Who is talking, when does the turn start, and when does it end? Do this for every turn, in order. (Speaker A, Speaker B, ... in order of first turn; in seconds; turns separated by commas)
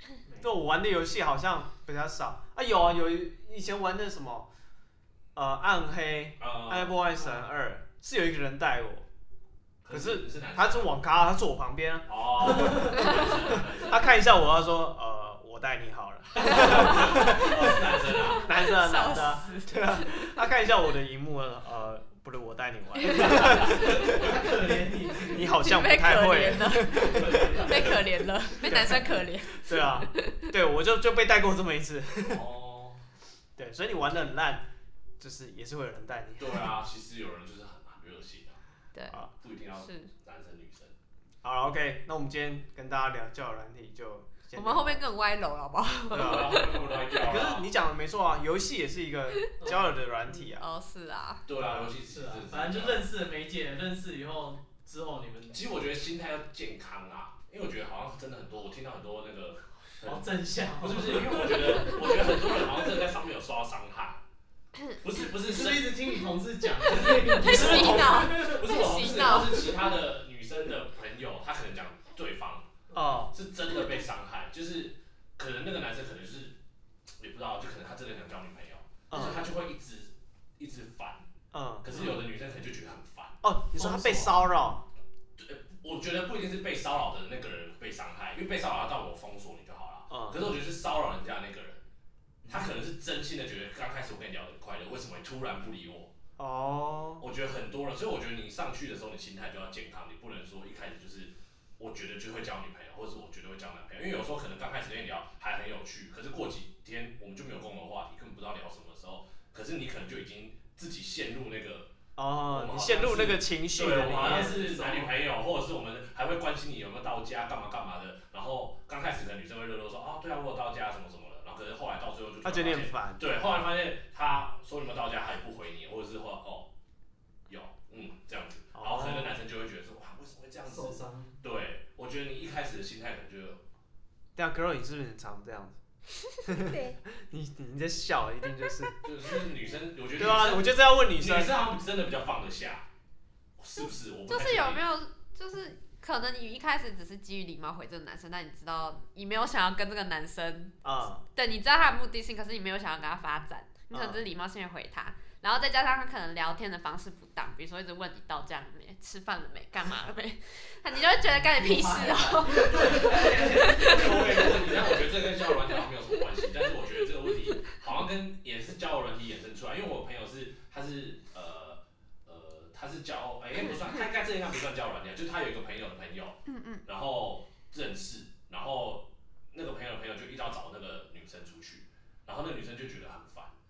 Speaker A: 0.3-0.6, Speaker B: 0.4-4.5, Speaker B: 5.3-9.1, Speaker C: 6.4-7.0, Speaker A: 7.2-7.5, Speaker C: 9.8-11.0, Speaker B: 9.9-17.9, Speaker C: 12.1-14.1, Speaker C: 16.4-18.5, Speaker D: 17.1-17.4, Speaker D: 18.1-20.1, Speaker B: 18.4-24.2, Speaker C: 23.0-24.4, Speaker D: 23.1-23.5, Speaker A: 23.7-25.5, Speaker B: 25.2-27.7, Speaker D: 25.5-30.5, Speaker C: 27.0-28.1, Speaker B: 28.7-28.9, Speaker B: 29.5-32.5, Speaker C: 32.2-33.0, Speaker B: 33.6-34.7, Speaker B: 35.2-36.7, Speaker C: 36.4-38.6, Speaker C: 39.4-40.9, Speaker D: 39.7-40.1, Speaker B: 41.4-45.0, Speaker D: 44.6-47.1, Speaker C: 46.1-47.7, Speaker B: 46.1-50.6, Speaker D: 49.3-49.7, Speaker A: 49.6-49.9, Speaker D: 50.3-51.4, Speaker C: 51.5-53.0, Speaker B: 51.6-51.9, Speaker A: 52.1-55.6, Speaker C: 55.5-64.2, Speaker A: 60.0-62.3, Speaker C: 65.0-66.1, Speaker A: 65.4-68.8, Speaker C: 66.8-72.7, Speaker D: 67.3-69.8, Speaker B: 72.9-73.4, Speaker C: 73.3-76.6, Speaker C: 77.2-81.3, Speaker B: 79.1-79.5, Speaker B: 81.5-82.1, Speaker C: 81.8-84.4, Speaker B: 83.4-84.9, Speaker C: 85.4-91.8, Speaker B: 90.1-90.5, Speaker A: 92.4-92.7, Speaker C: 92.5-96.1, Speaker B: 96.4-97.3, Speaker C: 97.2-111.9, Speaker B: 112.2-114.8, Speaker C: 112.5-126.7, Speaker A: 114.1-115.1, Speaker B: 122.4-123.2, Speaker C: 127.5-133.6, Speaker B: 128.8-129.4, Speaker A: 130.7-131.4, Speaker B: 134.4-135.8, Speaker D: 136.2-137.0, Speaker B: 136.5-139.0, Speaker C: 139.0-142.9, Speaker B: 140.2-141.6, Speaker C: 143.6-144.8, Speaker D: 143.8-150.7, Speaker B: 150.8-151.2, Speaker D: 151.3-164.5, Speaker B: 153.9-154.2, Speaker A: 161.2-165.0, Speaker C: 162.9-183.5, Speaker D: 165.7-166.5, Speaker D: 176.5-176.8